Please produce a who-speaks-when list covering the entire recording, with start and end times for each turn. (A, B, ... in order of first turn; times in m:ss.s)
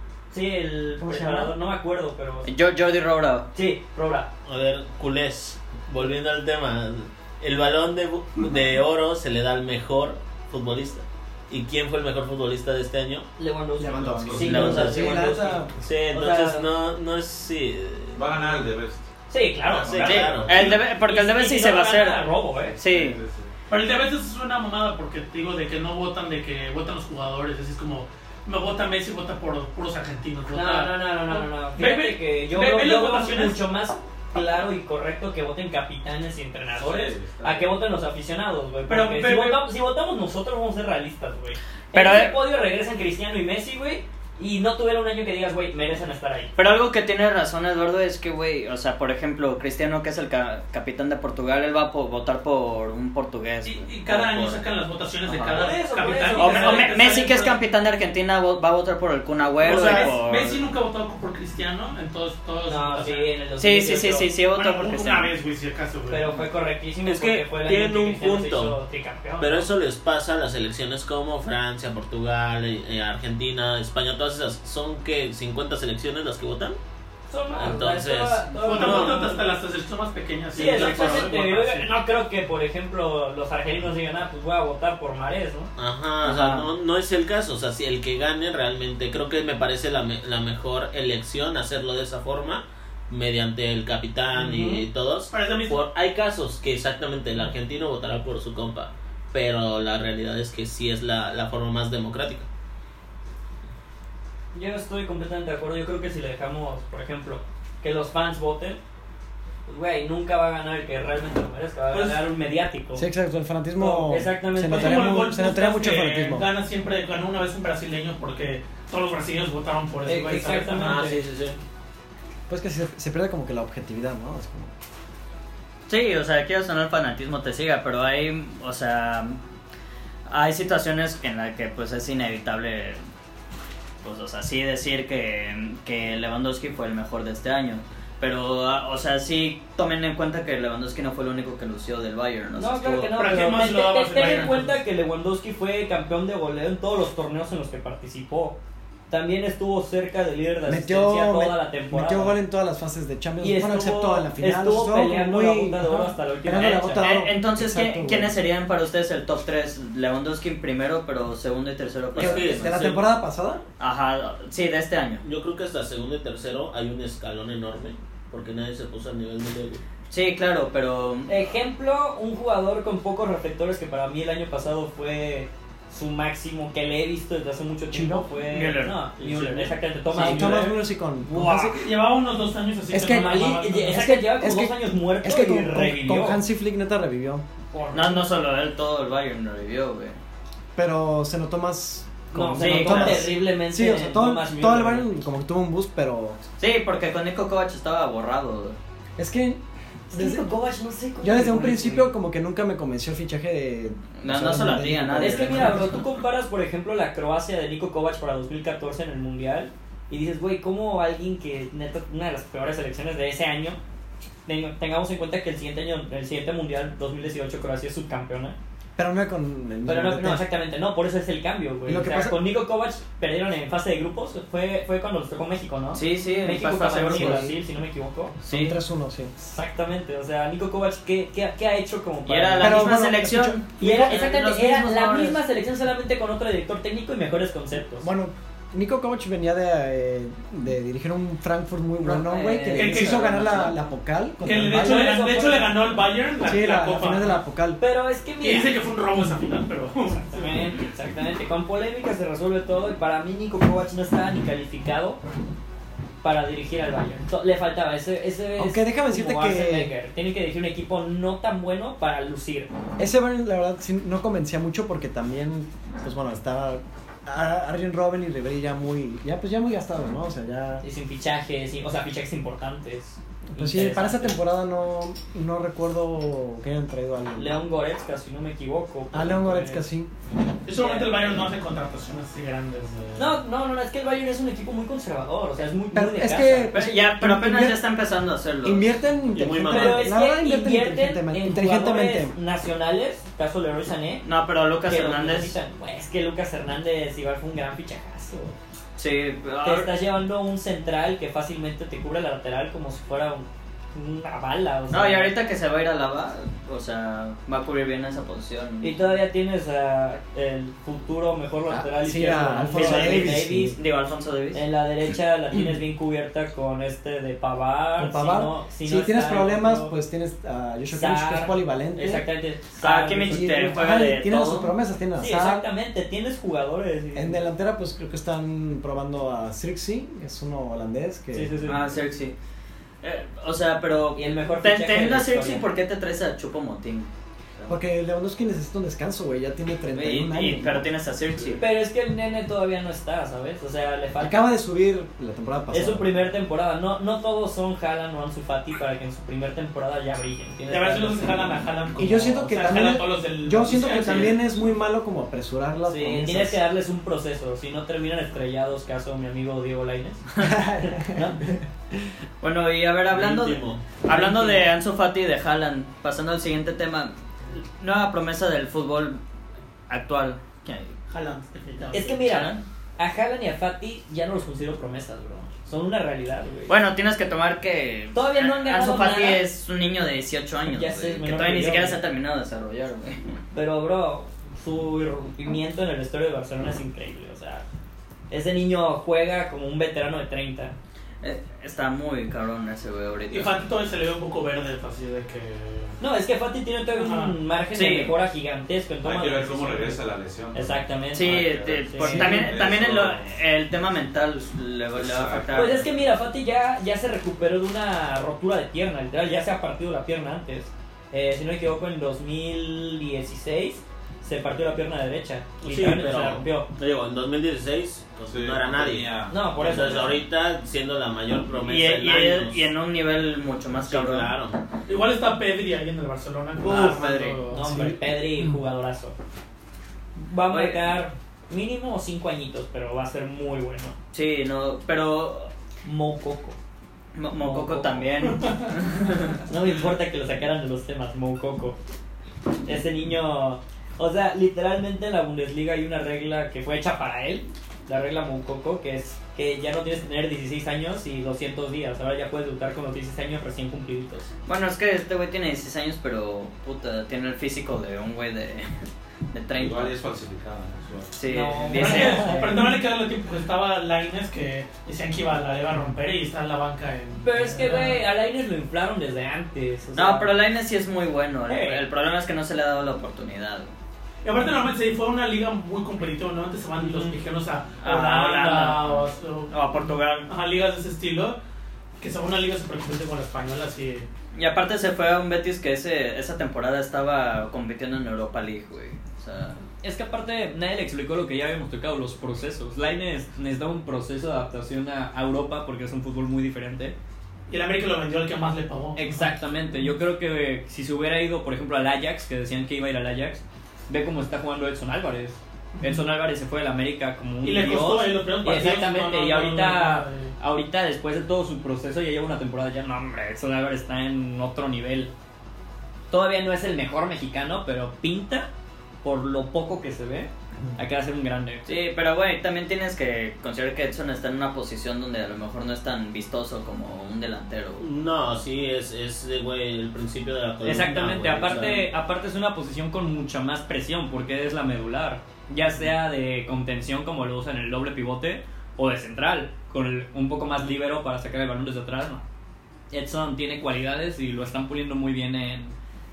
0:00.3-0:02.5 A
0:01.0-0:01.5 B
0:02.4-0:03.5 C
0:03.5-0:04.3 A
0:04.4-0:13.2 D
0:13.4-0:16.7 A
0:13.8-0:15.9 B
0:14.0-0:14.9 E
0:14.4-0:15.2 D
0:15.8-0:18.6 D
0:18.1-0:19.1 E
0:19.3-0:22.7 A
0:19.7-0:20.8 E
0:19.7-0:20.8 D
0:20.0-0:22.2 C
0:22.7-0:23.5 E
0:22.8-0:23.2 C
0:23.7-0:33.6 F
0:30.5-0:46.5 A
0:36.7-0:37.9 E
0:38.9-0:39.7 F
0:41.9-0:42.4 C
0:46.6-0:54.5 C
0:53.6-0:57.6 F
0:55.3-0:55.6 C
0:55.5-0:57.0 A
0:56.3-1:00.6 C
0:59.6-1:03.3 F
0:59.6-1:00.2 D
1:02.6-1:04.3 A
1:03.6-1:05.3 C
1:04.5-1:06.2 F
1:06.1-1:09.7 A
1:07.0-1:08.8 D
1:09.4-1:16.8 D
1:17.3-1:19.4 A
1:17.6-1:19.3 D
1:18.5-1:21.9 F
1:20.5-1:25.7 A
1:25.8-1:42.5 D
1:26.2-1:26.7 C
1:34.3-1:35.8 F
1:44.5-1:48.8 A
1:49.7-1:53.1 A
1:51.9-1:52.2 F
1:53.0-1:56.5 B
1:53.8-1:55.2 A
1:54.6-2:01.0 F
2:00.0-2:01.2 A
2:00.6-2:01.6 D
2:02.5-2:04.7 B
2:05.9-2:09.4 C
2:10.3-2:13.0 C
2:14.0-2:23.1 C
2:22.5-2:28.6 A
2:23.1-2:24.8 F
2:29.1-2:32.4 A
2:30.6-2:38.3 B
2:33.4-2:37.0 A
2:36.6-2:42.7 C
2:42.1-2:43.1 D
2:42.2-2:43.6 B
2:43.8-2:45.2 C
2:45.2-2:49.8 D
2:50.1-2:51.3 C
2:51.3-3:01.8 A
2:57.9-2:58.2 B
2:58.4-2:59.7 C
3:00.1-3:00.8 F
3:00.1-3:01.9 B
3:01.7-3:04.1 F
3:02.9-3:07.4 B
3:03.0-3:06.4 A
3:07.7-3:08.1 F
3:07.9-3:10.2 C
3:10.7-3:16.4 B
3:12.3-3:15.1 A
3:12.6-3:13.2 C
3:16.6-3:18.8 C
3:19.2-3:19.6 B
3:20.1-3:22.1 A
3:20.1-3:20.4 B
3:21.2-3:25.9 B
3:24.2-3:25.8 C
3:25.2-3:33.8 A
3:34.4-3:38.6 A
3:39.0-3:40.5 B
3:39.8-3:48.4 A
3:41.8-3:42.4 B
3:45.9-3:47.5 C
3:47.1-3:47.5 B
3:48.4-3:49.3 B
3:48.5-3:48.7 C
3:49.4-3:52.9 A
3:52.3-3:55.4 C
3:52.6-3:53.6 B
3:53.8-3:58.1 A
3:58.0-4:05.1 B
4:02.1-4:02.9 C
4:02.1-4:03.8 A
4:02.7-4:03.7 F
4:04.4-4:07.4 F
4:04.5-4:05.7 A
4:06.4-4:07.8 B
4:07.8-4:08.8 A
4:08.4-4:10.6 F
4:10.1-4:15.2 A
4:16.2-4:22.7 A
4:18.6-4:19.9 B
4:23.0-4:30.8 B
4:30.8-4:34.4 A
4:33.5-4:37.7 B
4:37.4-4:39.8 A
4:39.1-4:40.1 B
4:40.6-4:43.3 F
4:40.7-4:41.5 A
4:43.2-4:46.7 A
4:45.9-4:47.8 B
4:46.7-4:48.9 C
4:48.6-4:52.3 B
4:49.3-4:50.1 D
4:49.7-4:54.2 A
4:54.2-4:55.5 C
4:54.9-4:58.5 A
4:59.0-4:59.9 C
4:59.6-5:05.3 A
5:04.9-5:08.9 C
5:08.8-5:13.8 A
5:11.7-5:13.8 B
5:12.7-5:14.6 C
5:14.5-5:20.0 A
5:18.0-5:22.2 B
5:20.9-5:23.5 A
5:22.8-5:24.7 C
5:23.3-5:25.7 B
5:25.2-5:27.4 A
5:27.1-5:31.7 B
5:31.3-5:31.8 A
5:31.6-5:32.3 C
5:33.0-5:37.8 C
5:34.1-5:35.6 A
5:37.7-5:40.9 B
5:39.9-5:41.6 C
5:41.6-5:44.4 A
5:44.2-5:46.2 B
5:45.7-5:51.4 A
5:50.7-5:54.4 F
5:52.0-5:56.6 B
5:55.9-6:00.2 A
6:00.4-6:01.6 B
6:01.1-6:01.4 A
6:02.4-6:09.2 C
6:03.1-6:03.8 D
6:04.1-6:04.7 A
6:09.9-6:10.9 C
6:11.1-6:12.2 F
6:11.9-6:16.7 A
6:12.1-6:12.6 C
6:16.7-6:23.3 C
6:18.1-6:19.4 A
6:20.7-6:22.0 A
6:23.5-6:27.6 A
6:28.3-6:30.7 A
6:31.2-6:33.6 C
6:33.3-6:36.0 F
6:36.0-6:40.0 A
6:36.9-6:37.4 F
6:37.7-6:38.1 C
6:39.0-6:43.4 E
6:40.5-6:42.5 A
6:41.1-6:45.8 C
6:44.9-6:45.8 E
6:45.5-6:56.7 A
6:55.6-7:02.6 D
6:58.3-7:00.2 E
6:59.3-7:00.2 A
7:01.6-7:04.3 C
7:03.8-7:04.6 D
7:04.9-7:07.7 F
7:06.6-7:07.4 C
7:07.5-7:09.1 A
7:07.6-7:08.6 B
7:10.2-7:13.9 A
7:10.5-7:10.8 C
7:14.1-7:15.5 C
7:15.8-7:16.6 A
7:17.1-7:19.4 C
7:17.4-7:18.0 A
7:19.4-7:21.8 A
7:22.6-7:34.3 A
7:34.4-7:40.0 C
7:39.6-7:41.1 E
7:41.1-7:42.4 C
7:41.3-7:42.8 A
7:41.7-7:48.0 F
7:47.2-7:50.3 A
7:49.9-7:53.7 C
7:51.5-7:51.8 A
7:54.2-7:59.6 F
7:57.8-8:00.3 C
8:00.3-8:01.4 F
8:02.0-8:04.1 F
8:04.3-8:09.6 C
8:09.8-8:16.9 A
8:17.5-8:19.3 F
8:18.9-8:35.1 A
8:25.8-8:26.0 F
8:27.4-8:30.3 F
8:36.1-8:38.5 A
8:39.0-8:41.7 A
8:41.6-8:47.8 C
8:47.8-8:51.9 D
8:50.6-9:02.2 A
9:02.9-9:05.7 A